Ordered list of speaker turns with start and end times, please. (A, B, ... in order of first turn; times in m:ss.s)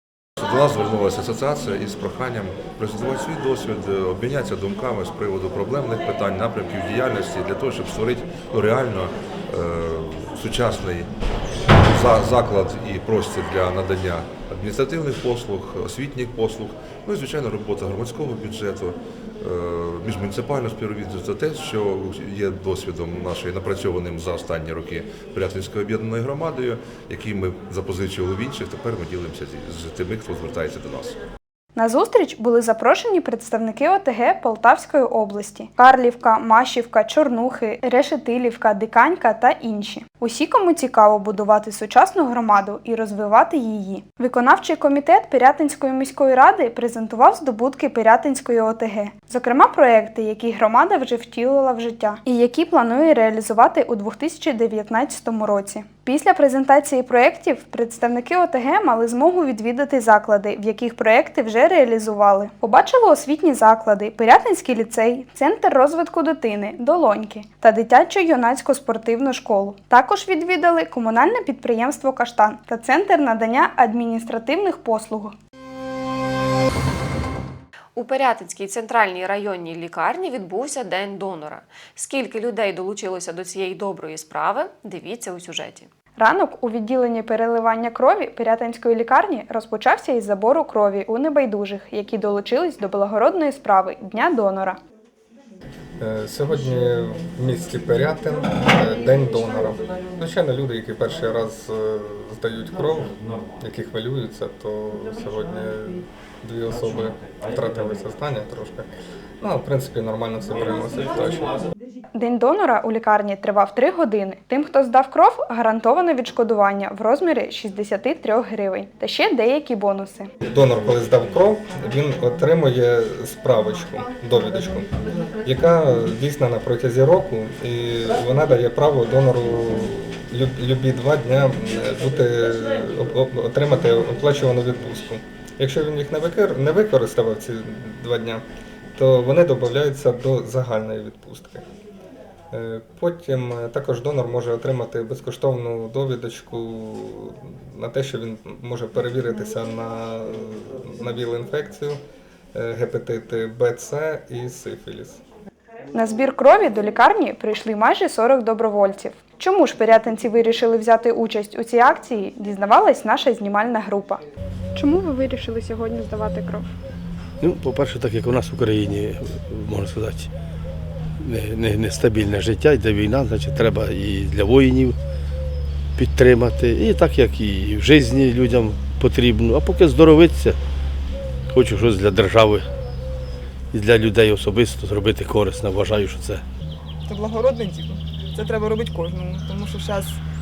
0:00.4-0:11.1 A
0:11.7-0:31.2 A
0:31.8-1:15.3 B
1:18.0-1:25.9 C
1:26.2-1:34.8 B
1:36.0-1:48.9 D
1:49.4-1:51.6 D
1:52.1-2:00.3 B
2:00.4-2:04.9 D
2:05.4-2:18.4 D
2:19.0-2:21.7 D
2:22.5-2:32.0 D
2:32.5-2:35.2 D
2:35.9-2:44.2 B
2:44.7-2:46.7 B
2:47.4-2:50.3 E
2:51.2-2:55.0 E
2:56.0-3:00.6 E
3:01.5-3:02.7 E
3:03.7-3:06.4 E
3:07.1-3:10.2 F